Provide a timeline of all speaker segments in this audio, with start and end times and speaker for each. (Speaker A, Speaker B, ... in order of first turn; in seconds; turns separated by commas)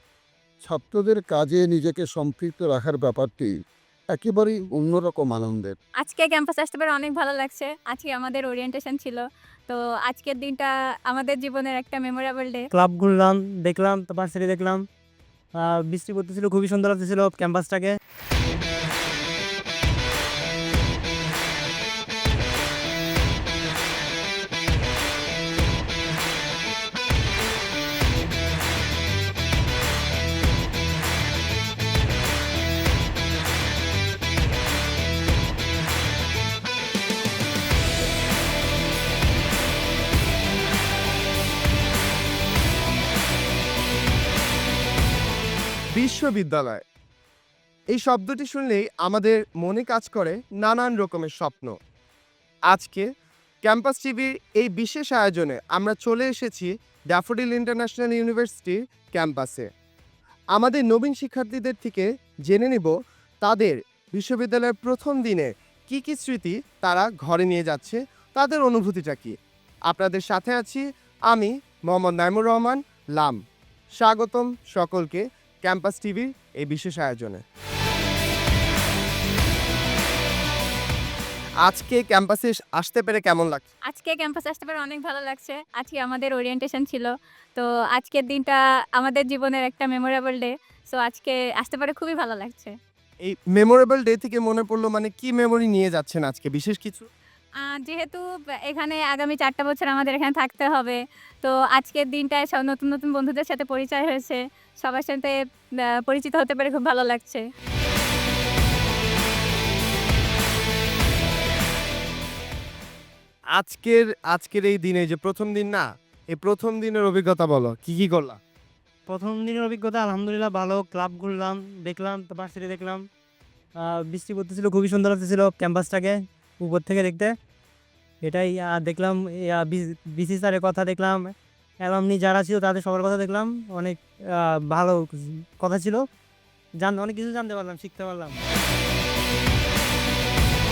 Speaker A: 0.6-3.5, Speaker A: 4.1-5.8, Speaker B: 6.0-12.6, Speaker C: 12.7-14.8, Speaker C: 15.6-18.0, Speaker D: 46.0-46.8, Speaker D: 47.9-51.8, Speaker D: 52.7-53.1, Speaker D: 53.6-59.7, Speaker D: 60.5-69.4, Speaker D: 69.9-73.4, Speaker D: 74.0-77.4, Speaker D: 81.7-83.7, Speaker B: 83.9-92.7, Speaker D: 93.2-97.1, Speaker B: 97.6-105.3, Speaker B: 106.1-107.4, Speaker D: 113.5-118.4, Speaker C: 119.1-123.0, Speaker C: 123.8-127.3, Speaker C: 128.2-136.1, Speaker C: 136.8-138.4